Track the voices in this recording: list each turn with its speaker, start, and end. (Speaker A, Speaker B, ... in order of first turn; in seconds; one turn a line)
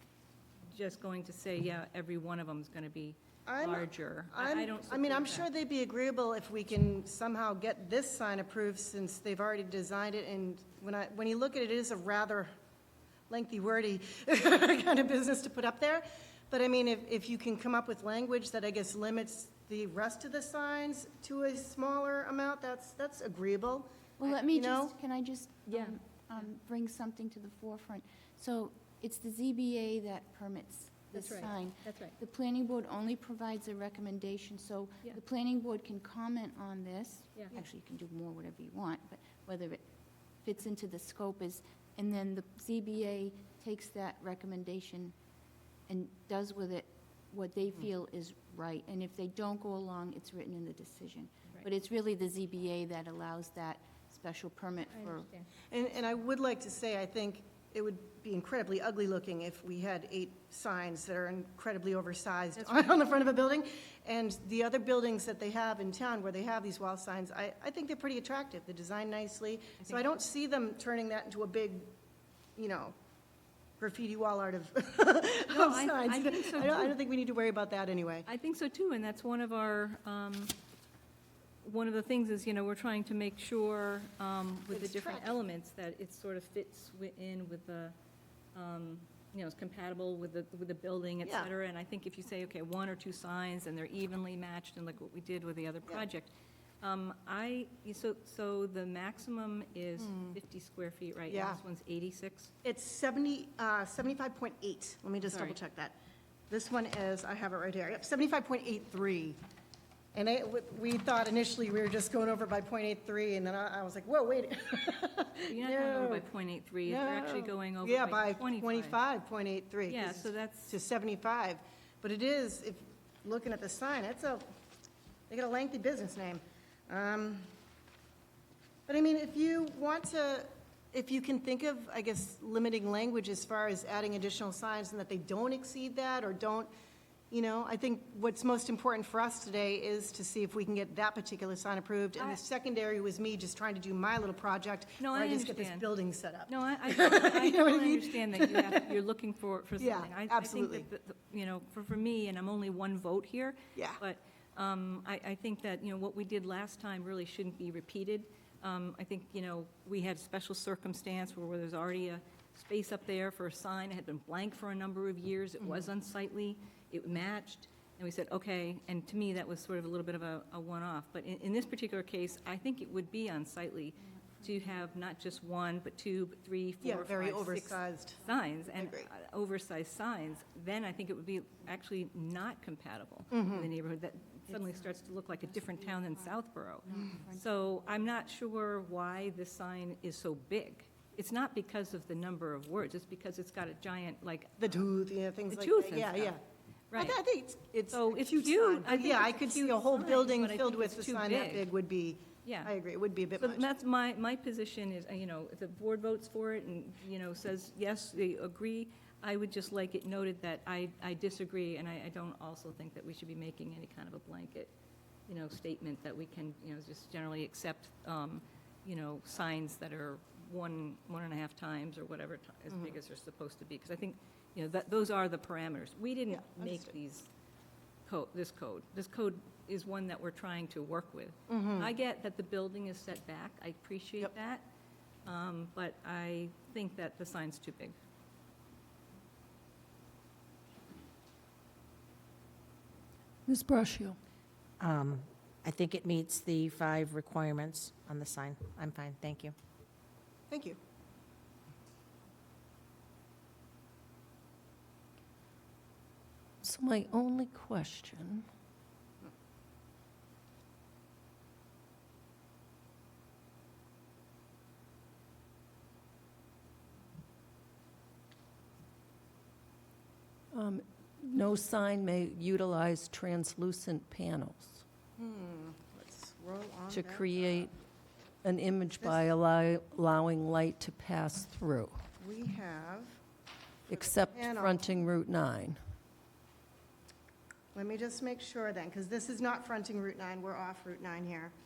Speaker A: 0.7-5.5
Speaker B: 3.5-12.5
Speaker B: 13.3-24.9
Speaker C: 24.2-39.8
Speaker A: 25.7-26.4
Speaker A: 31.1-32.2
Speaker C: 40.4-45.1
Speaker C: 45.9-55.3
Speaker A: 54.9-55.5
Speaker B: 55.7-71.9
Speaker A: 62.6-63.0
Speaker A: 69.8-70.1
Speaker B: 72.6-72.9
Speaker B: 73.8-78.3
Speaker A: 75.5-77.0
Speaker A: 78.3-80.5
Speaker A: 81.6-87.9
Speaker B: 84.7-85.4
Speaker A: 88.5-102.5
Speaker B: 91.2-91.5
Speaker B: 100.0-100.4
Speaker B: 101.3-101.6
Speaker B: 102.6-106.0
Speaker A: 105.2-105.6
Speaker B: 106.5-109.4
Speaker B: 110.1-116.3
Speaker A: 115.5-119.0
Speaker B: 116.9-124.4
Speaker A: 119.9-120.8
Speaker B: 125.3-127.5
Speaker B: 128.9-136.7
Speaker B: 137.3-148.8
Speaker A: 145.0-145.9
Speaker A: 146.5-194.8
Speaker B: 149.8-150.9
Speaker B: 176.8-179.1
Speaker B: 183.3-183.7
Speaker C: 186.9-187.3
Speaker B: 194.6-196.4
Speaker A: 195.5-196.4
Speaker A: 196.9-197.2
Speaker B: 196.9-203.7
Speaker A: 197.9-201.7
Speaker A: 202.4-202.7
Speaker A: 203.4-214.7
Speaker A: 215.3-227.3
Speaker B: 226.3-226.9
Speaker A: 228.1-234.7
Speaker B: 231.5-231.9
Speaker A: 235.2-238.0
Speaker D: 243.5-244.2
Speaker E: 244.8-249.5
Speaker B: 250.5-250.8
Speaker D: 256.6-258.5
Speaker D: 270.5-274.8
Speaker B: 275.2-277.7
Speaker D: 276.9-277.8
Speaker D: 278.4-282.0
Speaker B: 279.0-279.2
Speaker B: 282.2-283.2
Speaker D: 283.9-285.8
Speaker B: 283.9-284.9
Speaker B: 287.7-291.5